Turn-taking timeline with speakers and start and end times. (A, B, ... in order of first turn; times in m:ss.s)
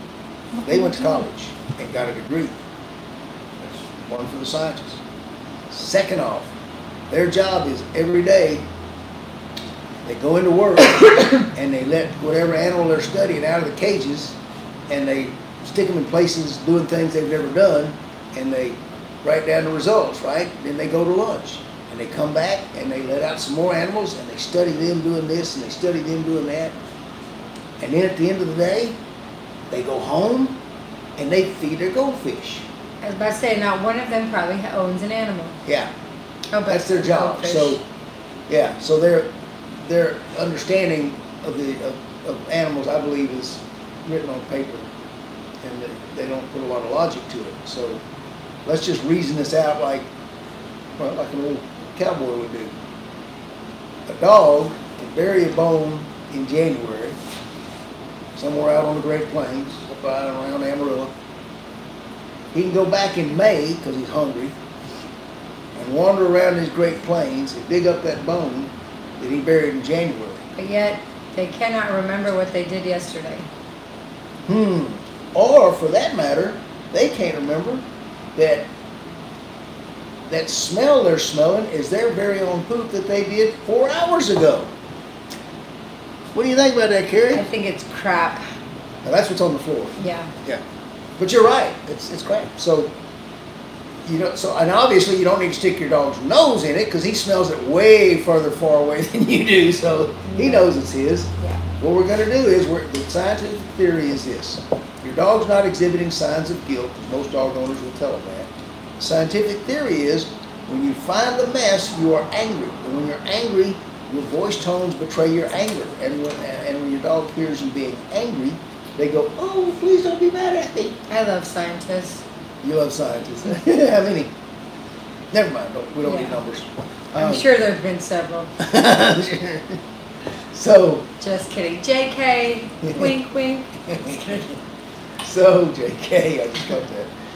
0:00.6-0:02.6 A
0:03.6-0:05.0 A
0:05.7-0:06.5 A
0:07.1-0:08.6 A
0:10.0-0:14.4 A
0:14.9-0:26.8 A
0:27.8-0:29.0 A
0:29.7-0:30.6 A
0:31.2-0:32.7 A
0:33.0-0:35.6 B
0:35.6-0:35.9 A
0:36.5-0:37.8 B
0:36.7-0:37.8 A
0:38.5-0:44.9 A
0:45.6-0:48.0 A
0:48.6-0:50.1 A
0:51.0-0:52.7 A
0:54.1-0:57.2 A
0:58.4-1:01.1 A
1:02.5-1:04.6 A
1:05.8-1:10.4 A
1:10.6-1:13.5 B
1:14.5-1:17.8 A
1:18.4-1:18.7 A
1:20.3-1:24.7 A
1:26.3-1:27.5 A
1:27.3-1:28.4 B
1:29.0-1:30.6 A
1:30.0-1:30.3 B
1:31.2-1:32.9 A
1:34.0-2:01.0 A
1:40.3-1:40.7 B
2:01.1-2:02.2 B
2:02.6-2:04.3 A
2:05.3-2:07.4 A
2:06.0-2:06.4 B
2:07.2-2:08.5 B
2:08.6-2:09.8 A
2:10.5-2:11.1 A
2:11.2-2:14.4 B
2:12.8-2:13.1 A
2:13.9-2:14.5 A
2:15.2-2:17.1 A